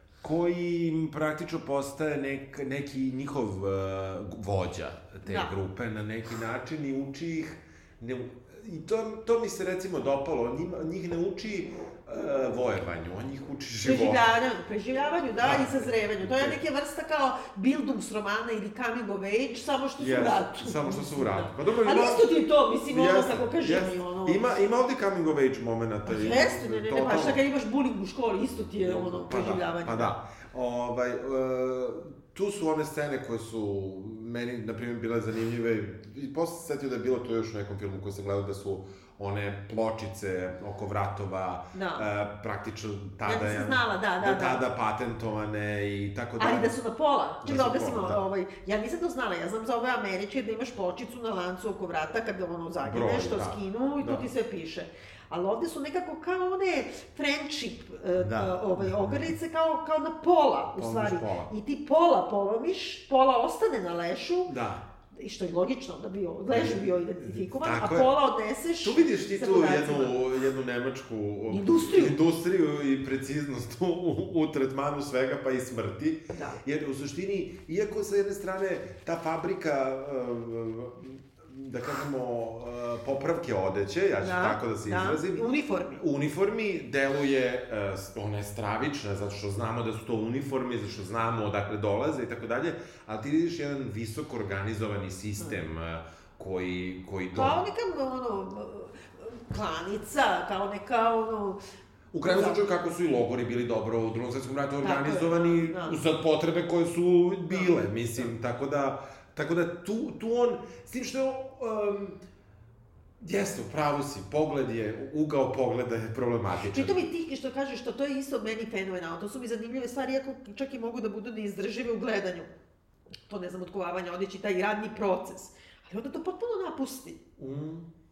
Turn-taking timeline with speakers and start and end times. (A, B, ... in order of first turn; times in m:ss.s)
0:00.2-0:14.2 A
0:05.2-0:05.5 B
0:13.8-0:24.4 B
0:15.4-0:16.6 A
0:20.0-0:22.3 A
0:22.9-0:27.4 A
0:26.0-0:30.1 B
0:28.8-0:46.8 A
0:41.7-0:42.1 B
0:43.2-0:44.6 B
0:46.4-1:04.6 B
0:47.4-0:48.2 A
0:52.8-0:54.3 A
0:58.2-0:59.3 A
1:00.8-1:01.5 A
1:04.5-1:04.8 A
1:05.1-1:10.2 B
1:06.5-1:08.1 A
1:08.8-1:37.6 A
1:11.5-1:12.2 B
1:16.3-1:16.6 B
1:24.2-1:26.0 B
1:37.3-1:41.6 B
1:42.1-1:52.2 A
1:42.3-1:42.6 B
1:44.8-1:46.0 B
1:47.5-1:48.3 B
1:53.2-1:57.0 A
1:56.7-2:02.5 B
2:03.3-2:07.2 B
2:07.4-2:07.9 A